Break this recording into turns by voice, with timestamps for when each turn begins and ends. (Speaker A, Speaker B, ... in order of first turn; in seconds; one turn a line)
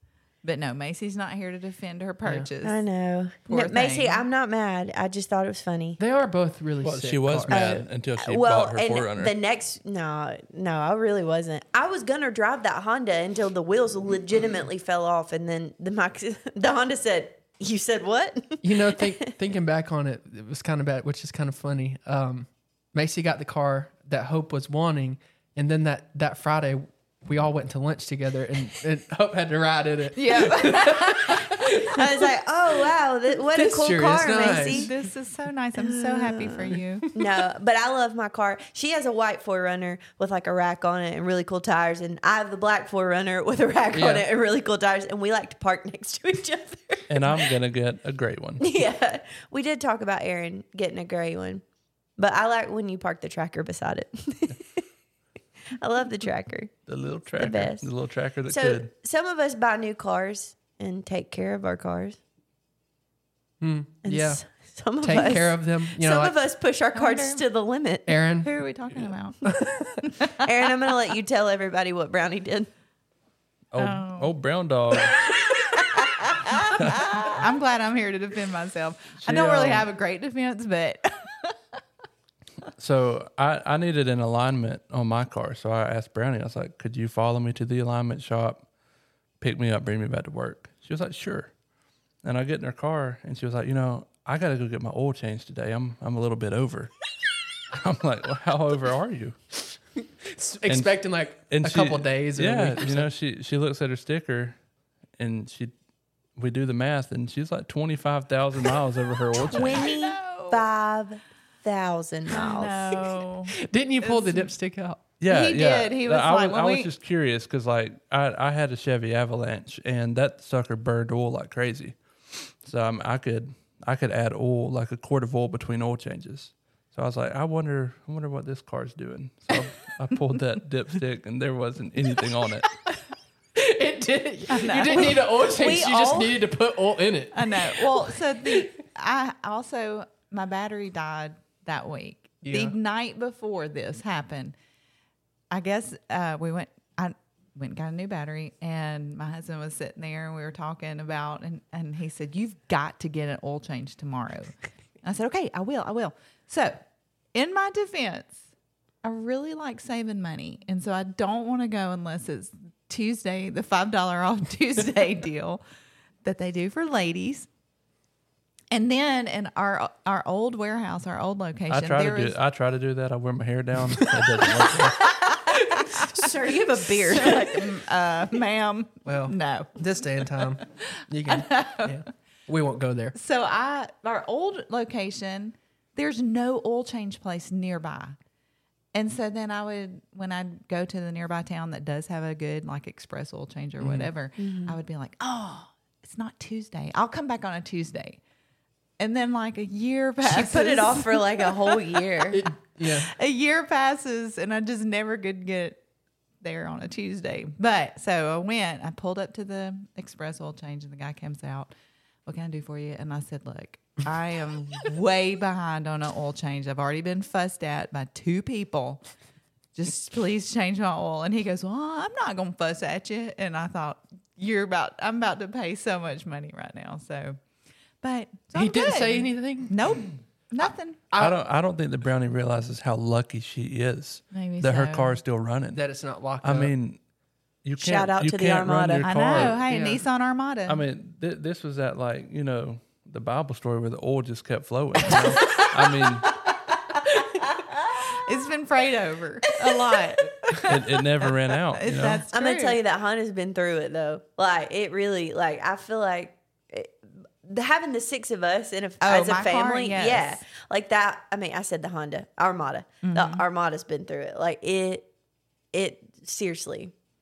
Speaker A: 0.4-2.8
Speaker B: 2.6-6.0
Speaker A: 3.5-4.2
Speaker C: 6.0-7.7
Speaker D: 6.8-9.3
Speaker B: 7.5-19.3
Speaker C: 18.6-32.1
Speaker A: 30.1-31.7
Speaker B: 31.9-34.9
Speaker C: 33.5-34.9
Speaker A: 34.5-37.0
Speaker B: 35.8-47.4
Speaker C: 43.9-44.2
Speaker D: 47.1-48.7
Speaker B: 48.6-51.6
Speaker B: 52.2-54.8
Speaker B: 55.7-56.7
Speaker D: 56.9-58.9
Speaker B: 57.4-57.9
Speaker B: 58.5-62.2
Speaker C: 63.6-64.4
Speaker B: 64.0-68.2
Speaker C: 65.0-66.4
Speaker A: 66.9-67.4
Speaker C: 68.1-68.5
Speaker A: 68.4-70.4
Speaker B: 70.3-72.7
Speaker D: 73.7-75.3
Speaker A: 73.8-74.3
Speaker A: 76.0-81.5
Speaker D: 76.8-77.3
Speaker D: 79.2-79.9
Speaker D: 82.8-88.6
Speaker D: 89.4-91.5
Speaker D: 92.2-96.9
Speaker D: 97.7-99.3
Speaker C: 100.2-103.1
Speaker D: 100.7-104.5
Speaker D: 105.2-105.7
Speaker D: 106.3-109.9
Speaker B: 109.5-113.1
Speaker A: 109.5-110.6
Speaker A: 112.3-114.5
Speaker C: 113.5-115.0
Speaker D: 115.2-122.0
Speaker A: 115.2-116.9
Speaker D: 122.6-132.8
Speaker C: 133.6-138.6
Speaker A: 134.5-135.2
Speaker B: 134.9-136.4
Speaker A: 137.3-144.5
Speaker C: 142.4-142.7
Speaker A: 145.5-156.8
Speaker A: 157.3-158.4
Speaker A: 159.0-165.6
Speaker A: 166.2-167.5
Speaker A: 168.7-172.4
Speaker D: 171.7-175.1
Speaker A: 174.8-179.8
Speaker B: 175.5-177.7
Speaker C: 179.1-183.2
Speaker A: 181.2-182.0
Speaker A: 183.1-188.2
Speaker A: 188.9-198.2
Speaker C: 193.8-194.1
Speaker B: 194.4-194.8
Speaker A: 199.0-202.0
Speaker B: 200.2-202.4
Speaker C: 202.3-203.1
Speaker A: 202.8-205.8
Speaker A: 206.4-211.7
Speaker A: 212.2-219.0
Speaker A: 219.8-227.4
Speaker A: 228.0-231.0
Speaker C: 228.5-229.7
Speaker C: 231.1-231.4
Speaker D: 231.2-235.8
Speaker A: 234.3-235.2
Speaker C: 235.7-236.7
Speaker D: 236.4-237.0
Speaker D: 237.6-239.6
Speaker B: 237.8-239.1
Speaker A: 239.0-240.8
Speaker C: 239.3-240.0
Speaker D: 240.7-246.3
Speaker A: 245.2-245.7
Speaker A: 248.1-252.8
Speaker B: 249.6-249.9
Speaker D: 250.6-252.2
Speaker B: 252.3-265.1
Speaker A: 259.0-260.4
Speaker A: 263.0-263.4
Speaker B: 265.7-266.9